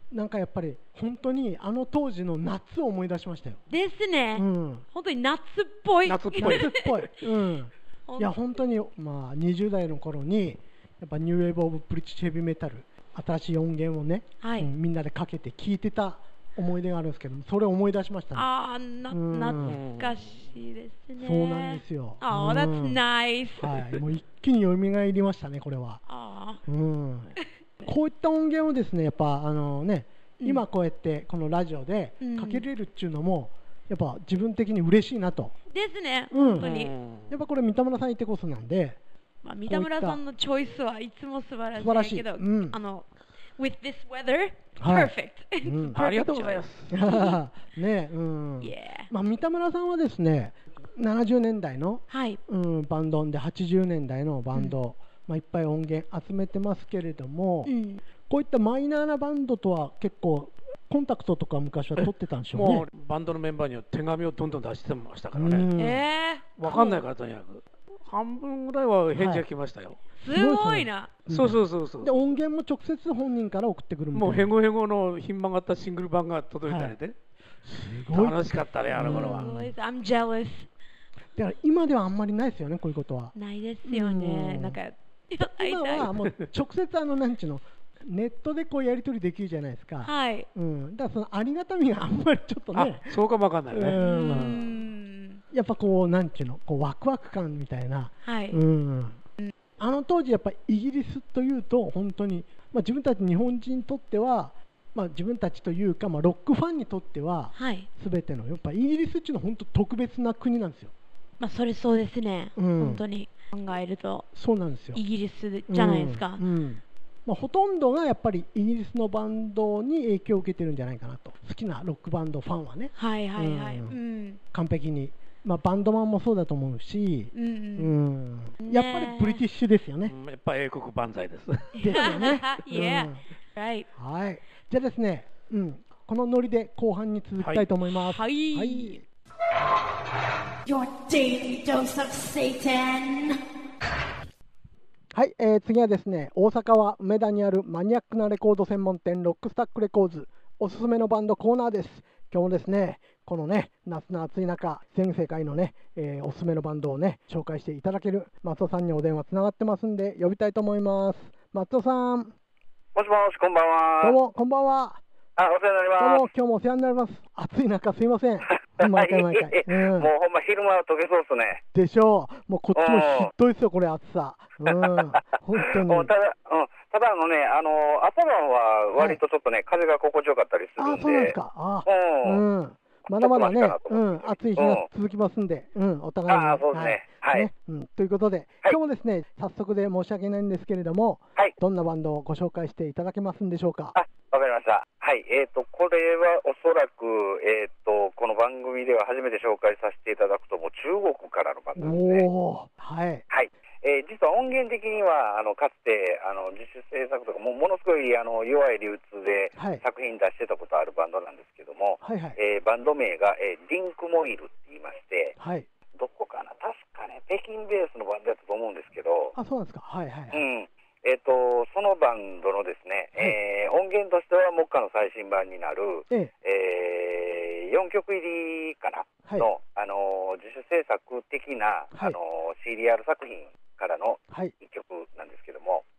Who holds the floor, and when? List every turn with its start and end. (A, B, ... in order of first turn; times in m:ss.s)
0:00.1-0:03.6 A
0:03.7-0:07.1 B
0:04.3-0:04.8 A
0:06.0-0:06.8 C
0:06.4-0:18.5 A
0:08.1-0:08.4 B
0:14.4-0:14.7 B
0:18.3-0:23.9 B
0:19.1-0:19.8 A
0:19.6-0:20.5 C
0:21.2-0:23.0 A
0:23.6-0:26.0 A
0:26.1-0:26.6 B
0:26.6-0:35.5 A
0:30.4-0:30.6 B
0:32.2-0:32.6 B
0:35.7-0:36.9 B
0:36.3-0:36.7 A
0:36.6-0:37.4 C
0:37.3-0:39.0 A
0:39.4-0:47.4 B
0:39.7-0:40.2 A
0:41.8-0:42.8 A
0:44.8-0:46.0 A
0:45.9-0:47.0 C
0:46.9-0:57.7 A
0:48.6-0:49.1 B
0:52.1-0:52.4 B
0:57.6-0:58.0 B
0:58.3-1:02.9 A
1:02.5-1:05.7 C
1:05.3-1:06.0 A
1:05.8-1:06.5 B
1:06.6-1:07.0 A
1:06.6-1:10.0 C
1:09.1-1:09.5 A
1:10.2-1:11.1 B
1:10.3-1:14.5 A
1:11.3-1:12.1 C
1:14.1-1:17.2 C
1:16.6-1:17.0 A
1:17.7-1:19.7 A
1:18.1-1:19.5 C
1:18.9-1:20.7 B
1:21.3-1:23.3 A
1:23.3-1:26.1 B
1:23.8-1:24.8 A
1:25.4-1:34.6 A
1:30.0-1:30.5 B
1:32.7-1:34.7 C
1:34.0-1:35.4 B
1:35.5-1:39.2 A
1:38.2-1:38.6 B
1:39.8-1:50.9 A
1:47.6-1:47.9 B
1:51.4-1:54.3 B
1:52.6-1:53.0 A
1:54.3-1:55.0 A
1:54.9-1:56.4 B
1:55.7-2:04.0 A
2:03.0-2:04.4 B
2:04.5-2:10.1 A
2:07.3-2:07.9 B
2:08.6-2:09.4 B
2:10.0-2:11.9 C
2:11.8-2:13.9 B
2:11.8-2:13.2 A
2:14.0-2:19.0 A
2:17.4-2:17.6 C
2:17.9-2:19.0 B
2:20.6-2:23.4 D
2:25.1-2:42.3 A
2:42.9-2:44.2 E
2:44.0-2:45.0 A
2:45.4-2:46.2 E
2:46.0-2:50.1 A
2:48.5-2:51.6 E
2:51.7-2:56.1 A
2:52.7-2:53.3 E
2:55.6-3:02.4 E
3:00.8-3:13.9 A
3:03.1-3:04.8 E
3:06.3-3:07.5 E
3:13.9-3:22.2 E
3:21.8-3:23.2 A
3:23.3-3:35.3 E
3:29.6-3:29.8 A
3:32.0-3:32.4 A
3:35.4-3:35.7 A
3:35.9-3:39.4 E
3:39.3-3:40.4 A
3:40.3-3:55.8 E